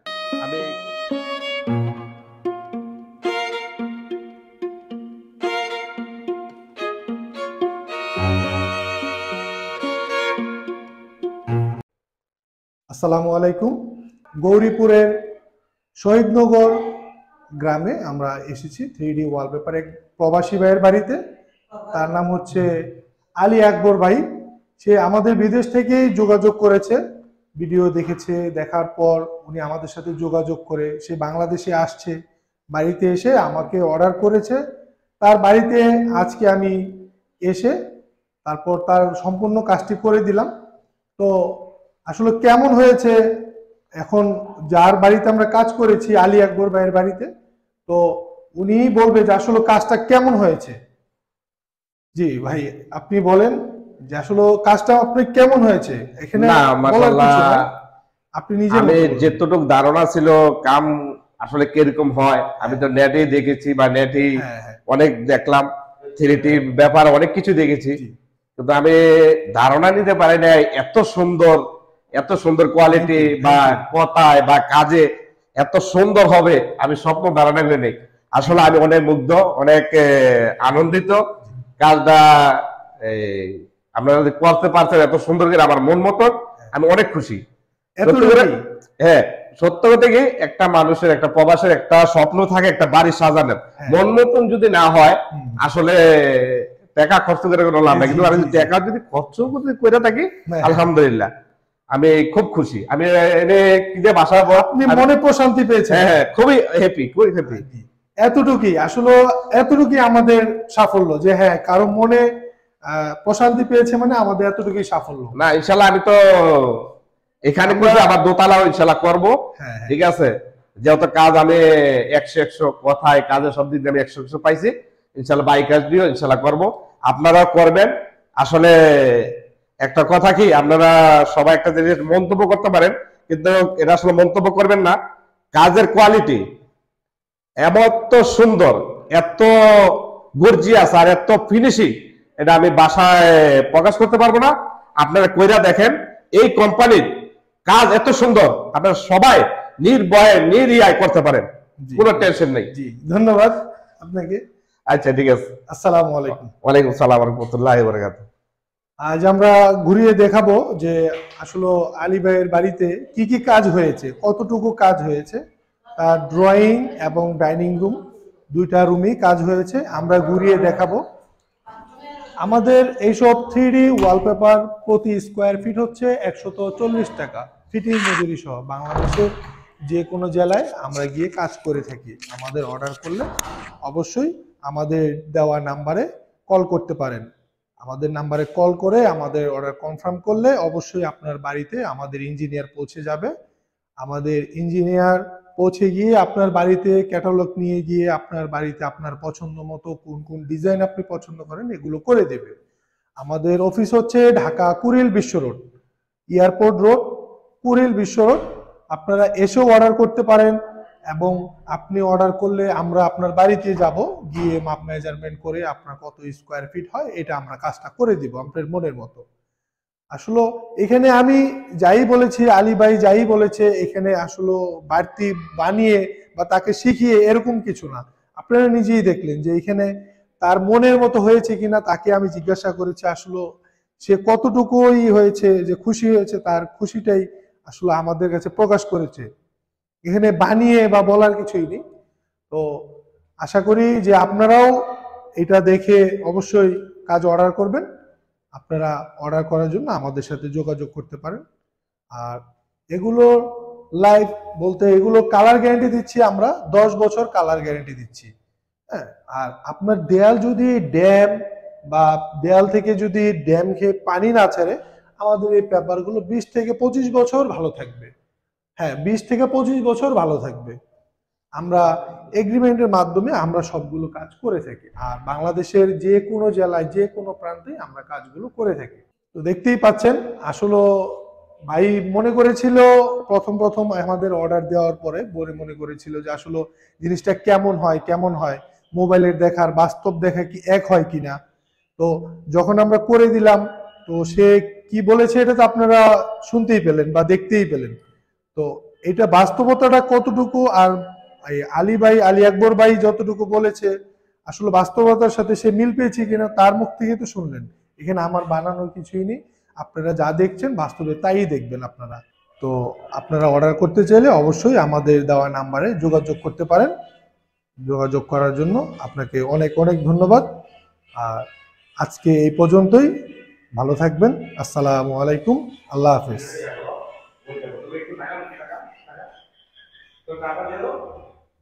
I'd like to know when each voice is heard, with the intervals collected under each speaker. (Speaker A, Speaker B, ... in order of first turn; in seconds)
Speaker A: 0.4-0.7, 56.4-57.6, 58.7-68.0, 68.6-69.0, 69.5-71.6, 72.2-75.1, 75.6-81.2, 81.8-87.4, 88.0-88.5, 89.0-101.3, 101.9-105.1, 105.9-107.6, 115.3-116.9, 117.5-119.3, 119.9-135.0, 135.5-136.4, 137.6-147.1, 147.7-152.7, 154.9-155.5, 156.6-158.3, 326.4-326.9, 327.4-329.2, 330.2-330.9
Speaker B: 12.9-13.7, 14.4-15.1, 16.0-16.8, 17.6-21.2, 21.9-22.7, 23.4-24.2, 24.8-27.0, 27.6-32.1, 32.7-34.6, 35.2-36.8, 37.4-37.8, 38.4-40.5, 41.2-43.1, 44.0-47.3, 47.9-50.7, 52.1-53.5, 54.1-57.6, 58.4-59.4, 64.3-64.8, 72.9-73.8, 88.0-88.6, 97.9-98.7, 100.5-100.8, 104.5-106.1, 107.5-112.2, 112.9-115.3, 117.7-118.1, 119.6-120.0, 151.8-154.4, 155.7-156.5, 159.0-165.4, 166.0-168.0, 168.5-171.0, 172.4-179.3, 179.9-183.3, 183.8-187.3, 187.8-193.3, 194.0-202.5, 203.2-205.6, 206.3-207.1, 207.6-208.4, 208.9-210.6, 211.1-219.2, 220.1-229.9, 230.4-233.4, 234.0-239.3, 240.0-241.8, 243.4-244.7, 245.4-247.8, 248.6-251.4, 252.9-258.3, 258.9-261.3, 261.9-268.1, 268.8-270.8, 271.6-271.9, 272.4-291.4, 292.0-297.9, 298.6-300.9, 301.5-303.9, 304.5-316.9, 317.9-320.5, 321.2-321.4, 322.0-323.1, 323.8-326.6